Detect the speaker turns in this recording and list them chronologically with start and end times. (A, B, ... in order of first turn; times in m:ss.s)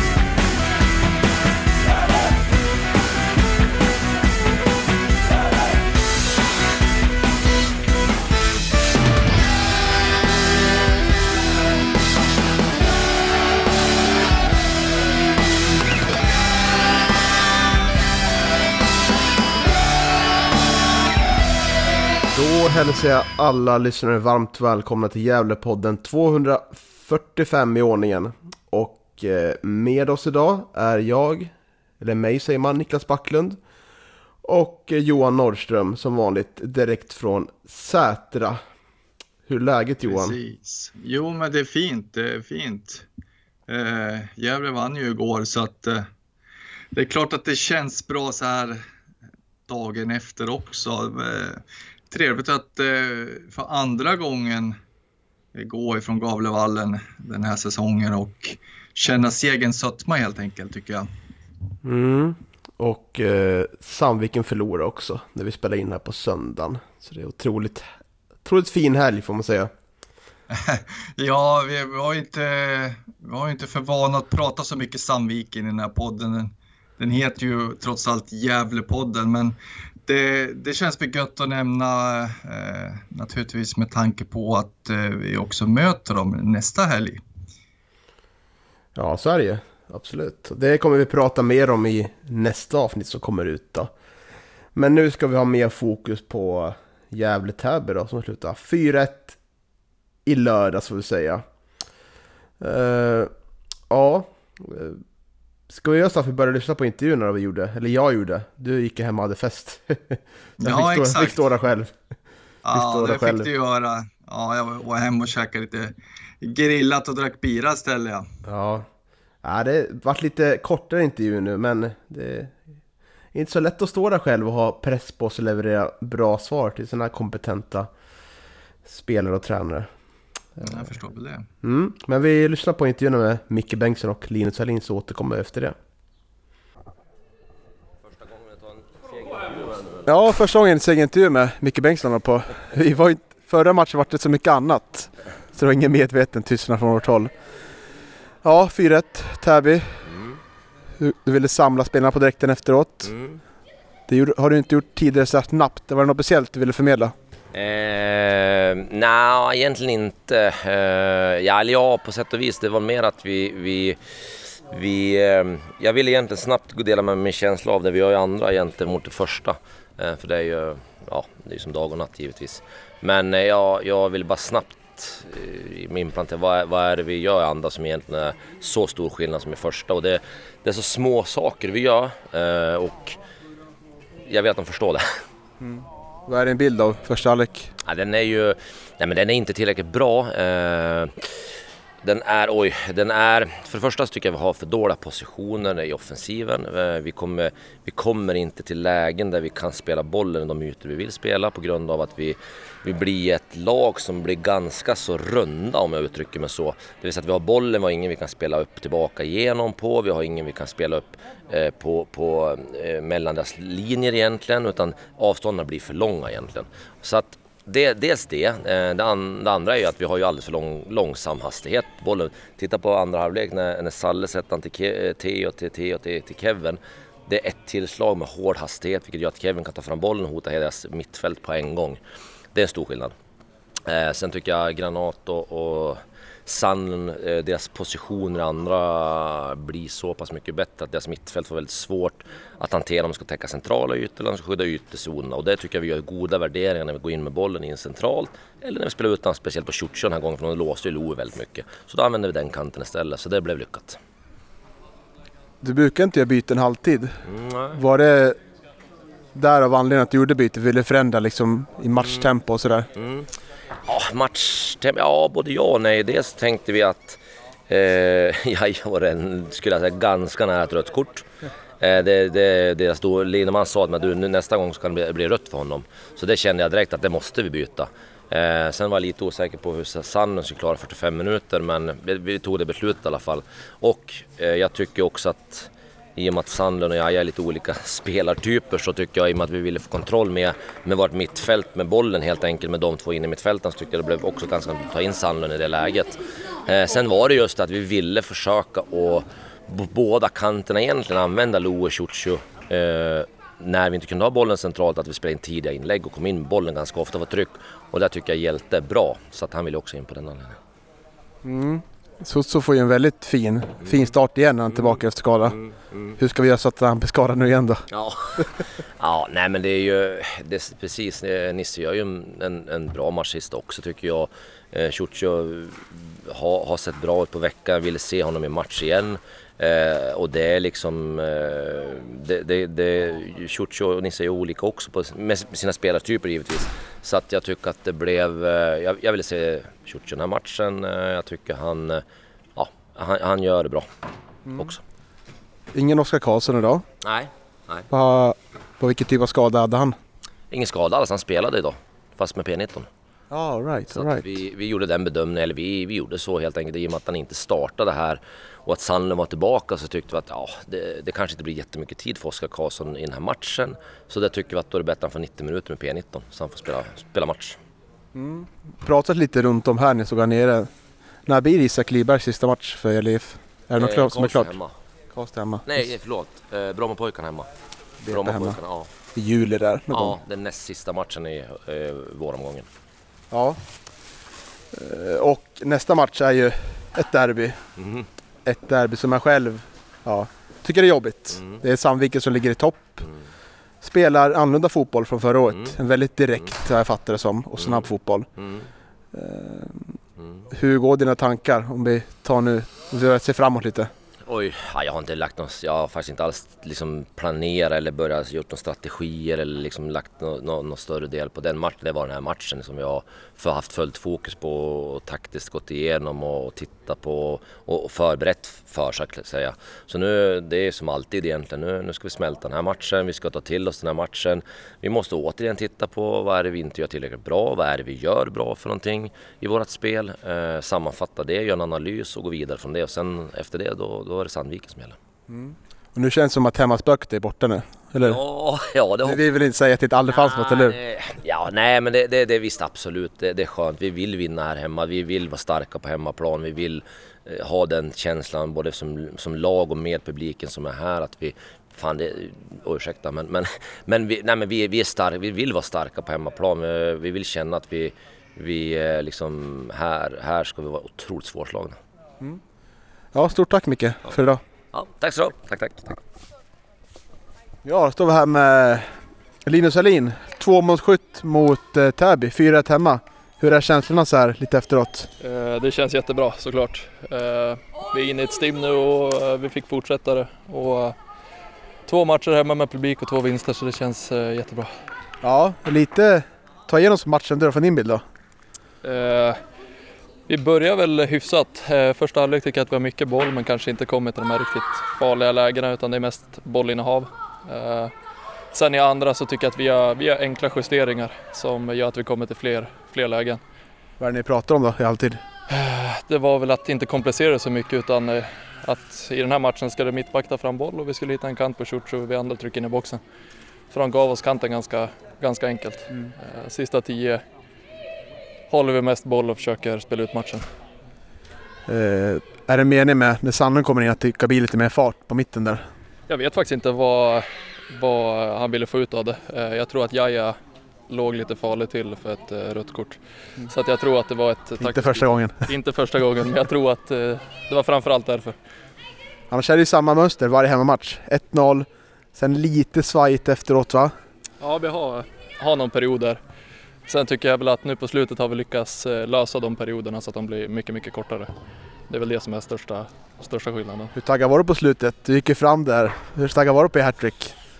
0:22.3-0:33.6 A
0:34.4-0:38.6 A
0:39.4-0:40.4 A
0:40.0-0:43.1 B
0:43.7-0:46.1 B
0:46.9-0:48.8 B
0:49.7-0:54.8 B
0:55.5-1:01.1 B
1:01.8-1:09.7 A
1:10.5-1:19.5 B
1:20.1-1:27.2 B
1:28.9-1:33.9 A
1:34.7-1:39.4 A
1:40.2-1:41.4 A
1:42.6-1:43.3 A
1:43.9-1:45.0 A
1:45.7-1:51.9 A
1:50.6-1:51.4 B
1:52.6-1:58.3 B
1:52.7-1:53.5 A
1:58.4-1:58.9 A
1:59.4-2:02.6 A
2:03.3-2:07.9 A
2:08.8-2:09.9 A
2:10.6-2:10.8 A
2:10.6-2:11.5 B
2:11.6-2:15.8 A
2:18.0-2:20.0 C
2:20.0-2:27.3 D
2:28.4-2:30.1 D
2:30.1-2:30.4 C
2:31.0-2:33.1 D
2:33.0-2:33.4 C
2:34.1-2:37.1 D
2:37.5-2:44.0 C
2:44.7-3:03.2 C
3:04.3-3:05.1 C
3:05.6-3:07.7 D
3:07.8-3:11.3 C
3:12.0-3:52.0 C
3:52.5-3:53.1 C
3:53.9-4:14.0 C
4:15.6-4:17.2 D
4:17.2-4:17.8 C
4:17.7-4:18.4 D
4:19.3-4:22.9 D
4:22.0-4:22.3 C
4:23.0-4:23.3 C
4:23.9-4:31.3 C
4:31.8-5:10.6 C
5:11.4-5:15.6 D
5:15.5-5:16.2 C
5:16.2-5:17.8 D
5:17.9-5:42.0 C
5:42.6-5:43.9 C
5:44.4-5:44.7 D
5:44.6-5:44.8 C
5:45.7-5:46.8 D
5:47.0-5:47.9 C
5:47.9-5:50.0 D
5:50.5-5:52.9 C
5:53.3-5:54.4 D
5:53.9-6:07.6 C
6:08.1-6:10.7 D
6:11.2-6:14.5 D
6:13.8-6:14.7 C
6:15.1-6:15.9 D
6:15.6-6:17.5 C
6:18.0-6:18.6 D
6:18.1-6:18.9 C
6:19.1-6:20.2 D
6:19.9-6:22.7 C
6:23.3-6:23.6 D
6:24.7-6:27.6 D
6:27.8-6:28.1 C
6:28.4-6:33.0 D
6:31.4-6:31.6 C
6:33.8-6:38.3 D
6:37.6-6:38.7 C
6:39.1-6:40.0 D
6:40.5-6:43.9 D
6:44.2-7:15.0 C
7:15.3-7:18.2 D
7:18.0-7:19.2 C
7:19.0-7:20.8 D
7:20.1-7:41.8 C
7:43.1-7:44.4 D
7:44.7-7:46.0 C
7:47.6-7:55.1 D
7:55.2-8:01.0 E
8:01.9-8:04.7 E
8:05.2-8:08.0 D
8:08.8-8:09.4 E
8:10.3-8:17.9 E
8:18.5-8:23.4 E
8:24.0-8:25.2 D
8:25.5-8:33.0 E
8:33.7-8:37.2 E
8:38.5-8:40.4 E
8:41.7-8:45.7 D
8:46.1-8:50.4 E
8:50.9-8:58.4 E
8:54.6-8:55.4 D
8:59.3-9:03.9 D
9:04.4-9:06.2 E
9:06.9-9:11.3 E
9:11.9-9:13.9 E
9:13.9-9:17.3 D